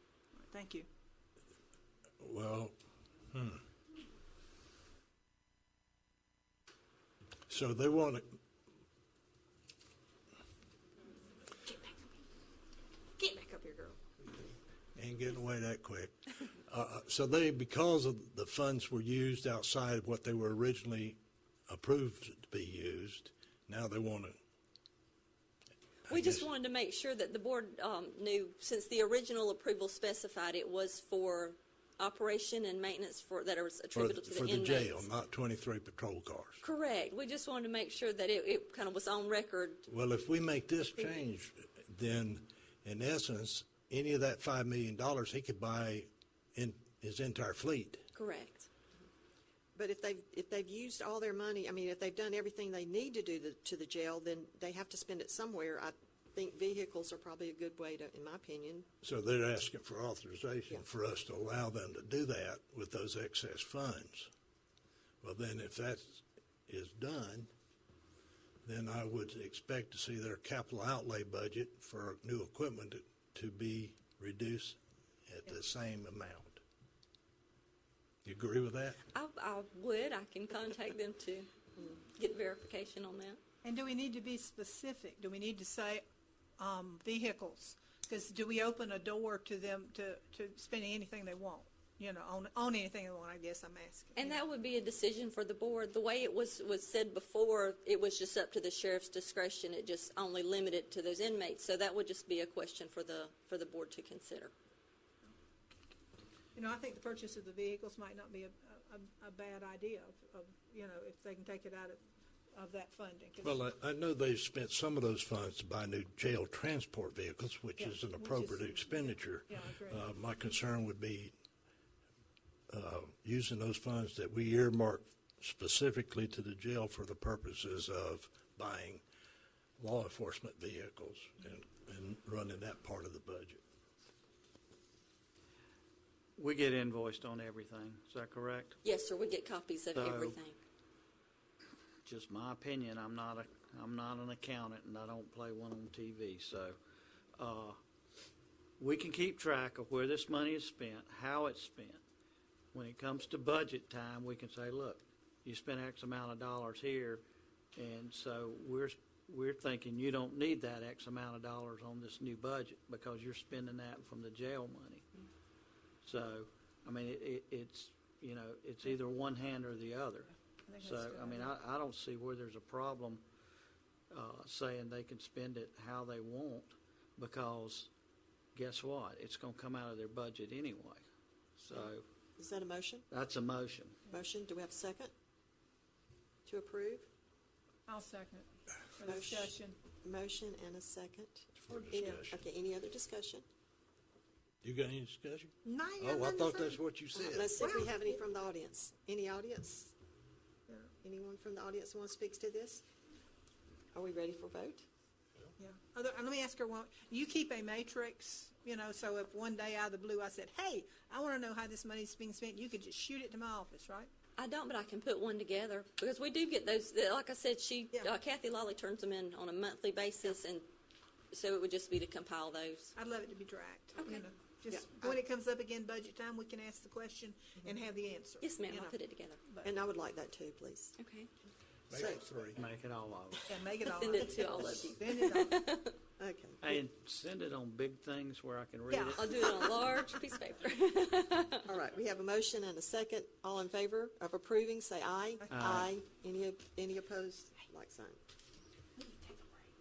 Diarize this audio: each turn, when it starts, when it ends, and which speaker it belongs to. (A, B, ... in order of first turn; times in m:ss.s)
0:00.4-0:00.9 A
0:02.2-0:02.7 B
0:03.3-0:03.6 B
0:07.5-0:08.2 B
0:11.6-0:12.0 A
0:13.2-0:14.0 A
0:15.0-0:24.4 B
0:26.1-0:35.1 C
0:26.1-0:26.4 B
0:33.9-0:36.6 B
0:36.6-0:39.8 C
0:39.9-0:48.0 B
0:48.1-0:48.7 C
0:49.8-0:58.9 D
0:59.0-1:04.3 B
1:05.2-1:07.5 B
1:08.6-1:16.6 B
1:18.2-1:19.0 B
1:19.1-1:21.5 C
1:22.1-1:23.4 C
1:23.6-1:26.0 A
1:26.6-1:34.4 A
1:34.2-1:44.5 C
1:46.5-1:52.0 A
1:52.5-1:53.6 A
1:53.4-2:01.3 B
1:57.8-2:00.1 A
2:02.7-2:09.0 B
2:09.8-2:13.6 B
2:16.4-2:18.8 E
2:18.8-2:20.6 C
2:19.9-2:20.4 E
2:22.0-2:26.8 E
2:27.4-2:27.8 E
2:28.8-2:32.0 E
2:32.7-2:37.2 E
2:37.7-2:45.1 E
2:46.0-2:53.2 E
2:50.6-2:51.5 A
2:54.1-2:57.9 E
2:58.5-3:01.0 E
3:01.6-3:02.0 E
3:01.7-3:03.1 D
3:03.1-3:04.0 E
3:04.1-3:05.1 D
3:06.4-3:07.1 D
3:07.9-3:09.8 A
3:09.0-3:11.5 D
3:11.6-3:12.4 B
3:11.9-3:12.2 A
3:12.0-3:13.4 D
3:14.6-3:17.6 B
3:15.6-3:16.8 A
3:17.1-3:19.9 D
3:17.6-3:18.0 A
3:21.0-3:22.8 D
3:23.9-3:24.8 D
3:25.6-3:34.1 A
3:34.4-3:40.7 C
3:41.3-3:42.9 C
3:43.0-3:49.7 A
3:44.0-3:44.3 C
3:44.7-3:45.2 D
3:48.4-3:49.4 C
3:49.6-3:51.0 D
3:51.0-3:51.3 C
3:51.9-3:52.6 B
3:51.9-3:52.2 D
3:52.6-3:53.6 E
3:53.5-3:55.7 A
3:53.8-3:55.9 C
3:56.2-3:56.8 D
3:56.6-3:59.3 E
3:58.9-4:00.1 A
3:59.1-4:01.7 C
4:01.6-4:08.2 D
4:05.5-4:05.9 E